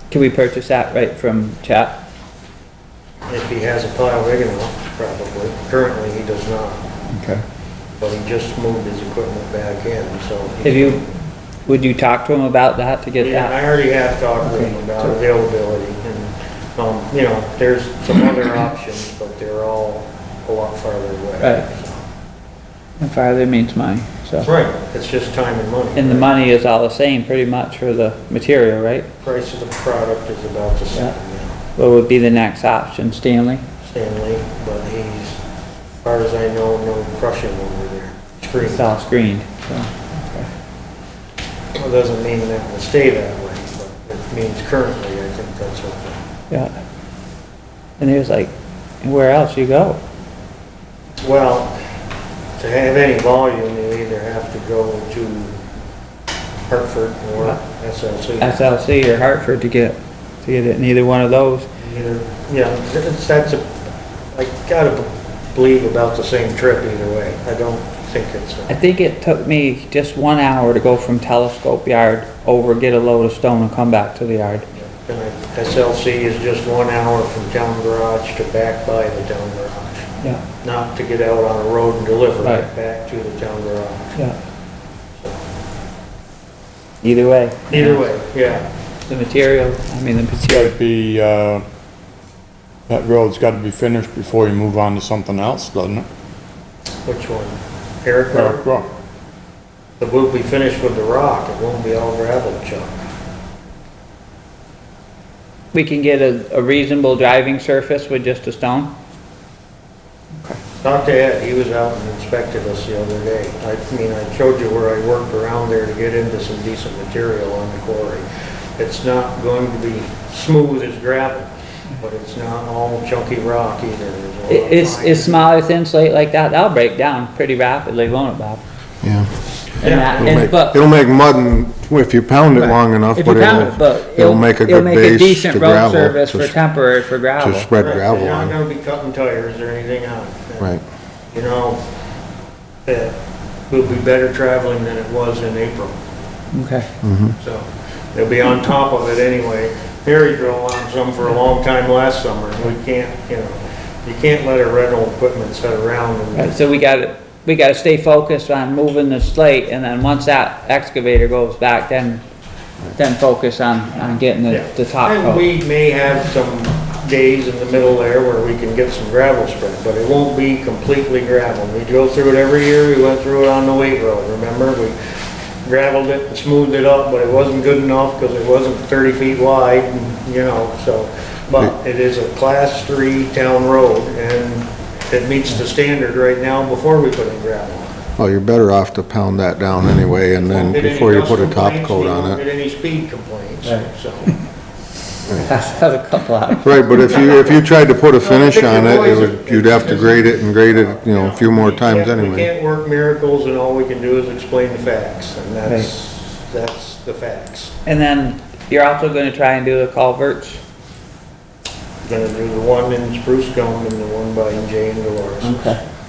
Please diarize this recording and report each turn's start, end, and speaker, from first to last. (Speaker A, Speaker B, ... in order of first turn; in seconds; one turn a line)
Speaker A: 0.1-2.0
Speaker B: 3.3-6.9
Speaker C: 7.2-7.4
Speaker B: 8.0-11.0
Speaker A: 10.6-11.0
Speaker A: 11.7-13.6
Speaker B: 13.2-22.0
Speaker A: 14.4-15.2
Speaker A: 23.0-24.5
Speaker B: 24.4-26.3
Speaker A: 26.0-29.1
Speaker B: 29.2-31.6
Speaker A: 31.8-33.6
Speaker B: 33.8-35.4
Speaker B: 36.0-38.8
Speaker A: 38.6-40.5
Speaker B: 41.8-46.2
Speaker A: 48.0-48.5
Speaker A: 49.0-50.0
Speaker B: 51.2-51.8
Speaker B: 52.6-55.6
Speaker B: 56.7-58.6
Speaker A: 58.4-61.7
Speaker B: 61.8-63.8
Speaker B: 64.3-68.8
Speaker A: 68.7-74.7
Speaker B: 74.8-84.2
Speaker A: 87.0-88.0
Speaker B: 87.7-88.6
Speaker A: 89.1-90.7
Speaker C: 90.5-91.6
Speaker C: 92.9-96.1
Speaker B: 97.1-98.8
Speaker C: 98.3-98.9
Speaker B: 100.0-103.0
Speaker A: 105.7-108.9
Speaker B: 110.8-118.2
Speaker B: 118.8-125.5
Speaker A: 124.5-128.6
Speaker D: 129.0-129.3
Speaker A: 129.8-130.8
Speaker B: 129.8-130.5
Speaker D: 130.2-136.6
Speaker A: 132.6-137.7
Speaker D: 137.4-138.6
Speaker B: 137.8-140.8
Speaker B: 141.3-141.8
Speaker B: 142.8-143.2
Speaker B: 143.7-145.9
Speaker A: 146.5-146.9
Speaker D: 147.0-147.3
Speaker B: 147.4-156.6
Speaker A: 156.3-162.2
Speaker A: 162.9-165.5
Speaker B: 164.5-175.0
Speaker B: 175.6-188.1
Speaker D: 188.2-192.4
Speaker B: 190.4-194.4
Speaker A: 195.3-197.2
Speaker D: 196.6-202.5
Speaker B: 198.2-207.7
Speaker A: 207.8-210.6
Speaker B: 212.0-215.8
Speaker A: 215.4-215.8